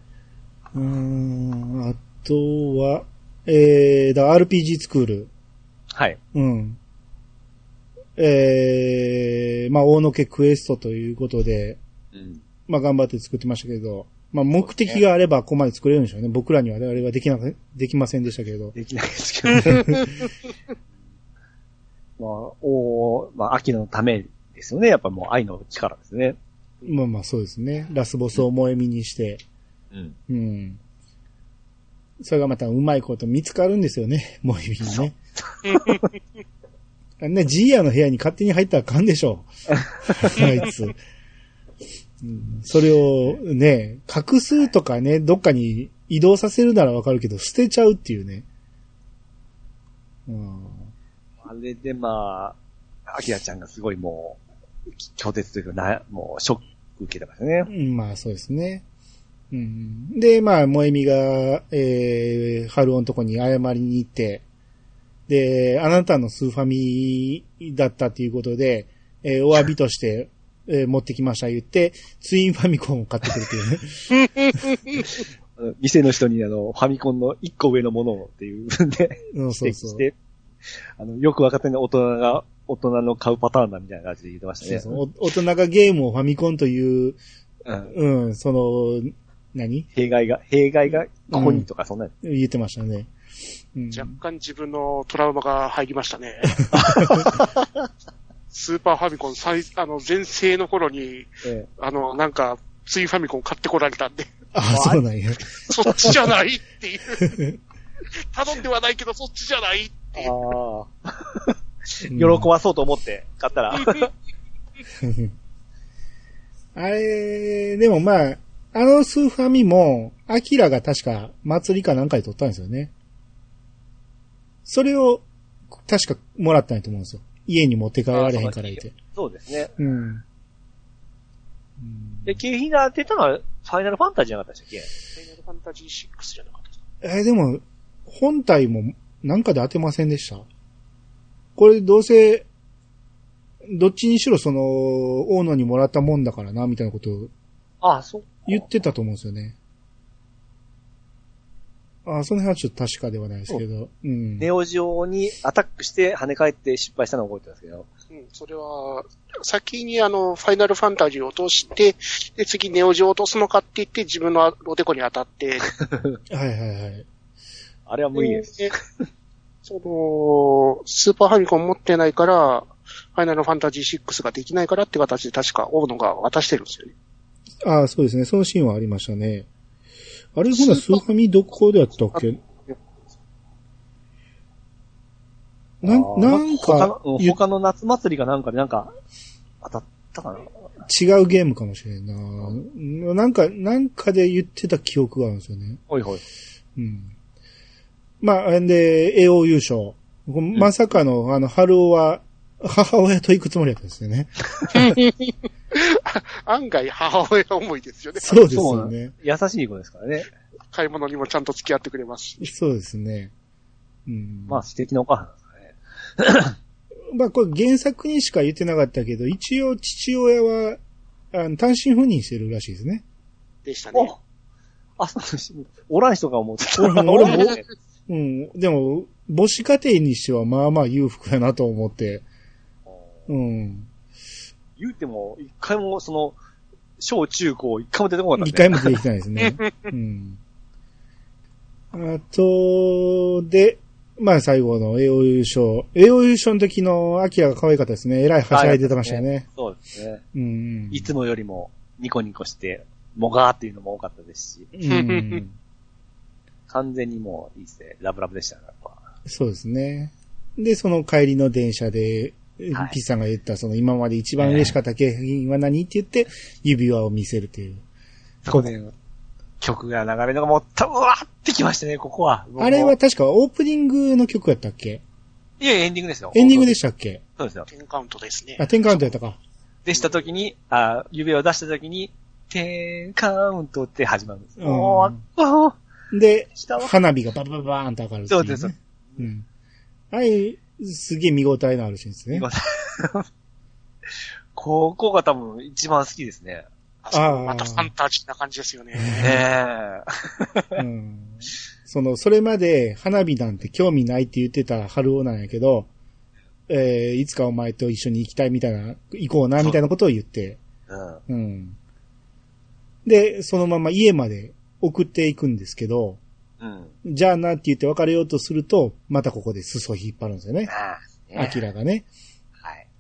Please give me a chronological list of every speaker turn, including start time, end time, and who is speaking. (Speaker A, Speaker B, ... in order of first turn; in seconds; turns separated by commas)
Speaker A: 0.7-5.3, Speaker B: 5.9-6.2, Speaker A: 6.3-6.8, Speaker A: 8.2-11.8, Speaker B: 12.1-12.4, Speaker A: 12.7-18.8, Speaker B: 14.6-15.0, Speaker B: 18.8-20.2, Speaker A: 19.7-20.1, Speaker B: 22.2-26.4, Speaker A: 26.9-29.4, Speaker A: 30.3-30.8, Speaker A: 32.2-35.2, Speaker B: 34.9-36.0, Speaker A: 37.2-39.5, Speaker A: 40.0-41.0, Speaker A: 42.2-48.5, Speaker A: 50.3-50.9, Speaker B: 51.4-52.6, Speaker B: 53.1-54.4, Speaker B: 55.0-57.7, Speaker A: 57.7-58.8, Speaker A: 59.5-64.4, Speaker A: 65.3-74.2, Speaker B: 75.6-80.1, Speaker A: 79.3-80.1, Speaker B: 81.0-85.0, Speaker A: 84.6-87.2, Speaker B: 87.7-87.9, Speaker A: 87.9-89.9, Speaker B: 90.0-92.1, Speaker A: 91.3-91.7, Speaker A: 92.2-93.1, Speaker A: 93.7-94.2, Speaker C: 93.9-96.6, Speaker A: 96.6-97.3, Speaker B: 96.8-97.7, Speaker C: 98.5-104.3, Speaker A: 104.5-106.1, Speaker B: 104.7-105.0, Speaker C: 105.7-107.3, Speaker A: 107.2-107.6, Speaker C: 108.2-110.4, Speaker B: 110.2-114.1, Speaker A: 112.1-112.5, Speaker A: 115.0-115.3, Speaker A: 116.8-122.9, Speaker A: 124.7-125.2, Speaker A: 125.8-128.9, Speaker B: 128.1-129.7, Speaker A: 129.8-130.2, Speaker A: 131.8-132.4, Speaker B: 132.3-134.9, Speaker C: 135.2-136.8, Speaker A: 137.0-140.5, Speaker A: 141.6-142.5, Speaker A: 143.7-147.3, Speaker B: 147.8-148.7, Speaker A: 148.5-149.6, Speaker A: 152.1-154.5, Speaker B: 154.4-157.9, Speaker C: 158.1-165.7, Speaker B: 165.8-166.2, Speaker A: 166.3-167.1, Speaker B: 167.9-168.8, Speaker C: 168.2-168.7, Speaker C: 169.7-176.9, Speaker A: 177.6-179.5, Speaker A: 180.3-182.4, Speaker C: 180.6-181.0, Speaker C: 182.2-182.8, Speaker A: 185.8-187.4, Speaker B: 185.8-188.9, Speaker B: 189.6-190.5, Speaker A: 190.9-195.8, Speaker B: 195.9-196.2, Speaker A: 196.8-197.1, Speaker A: 198.2-204.9, Speaker C: 204.8-208.4, Speaker A: 208.2-209.1, Speaker B: 208.4-210.3, Speaker C: 210.7-212.5, Speaker A: 212.4-213.3, Speaker A: 214.1-214.6, Speaker B: 214.5-216.6, Speaker A: 217.1-220.8, Speaker A: 221.3-223.0, Speaker C: 223.7-224.1, Speaker B: 225.0-227.6, Speaker A: 226.8-227.6, Speaker C: 227.3-227.6, Speaker A: 228.1-232.2, Speaker A: 233.3-233.9, Speaker B: 234.8-236.4, Speaker B: 237.0-238.9, Speaker A: 238.4-240.4, Speaker A: 241.9-249.5, Speaker B: 248.5-250.2, Speaker A: 250.3-251.1, Speaker B: 250.9-254.7, Speaker A: 254.8-255.6, Speaker C: 254.9-255.4, Speaker B: 256.7-259.0, Speaker A: 259.3-267.8, Speaker B: 264.4-264.8, Speaker B: 268.4-268.9, Speaker B: 269.6-272.9, Speaker A: 272.6-275.0, Speaker B: 275.6-276.8, Speaker A: 276.3-277.2, Speaker B: 277.4-277.7, Speaker C: 277.7-278.6, Speaker A: 278.6-279.4, Speaker B: 279.9-285.8, Speaker A: 284.6-285.2, Speaker A: 286.1-289.4, Speaker B: 286.6-286.9, Speaker B: 288.3-289.2, Speaker A: 290.1-292.5, Speaker B: 292.3-293.3, Speaker B: 294.6-296.7, Speaker C: 297.0-299.4, Speaker A: 297.1-297.9, Speaker A: 299.0-299.4, Speaker B: 299.2-300.8, Speaker A: 300.8-305.9, Speaker A: 306.7-310.6, Speaker B: 310.9-311.2, Speaker A: 311.3-311.8, Speaker A: 313.1-316.2, Speaker B: 316.6-316.9, Speaker A: 317.0-320.7, Speaker B: 320.7-321.6, Speaker A: 321.4-322.1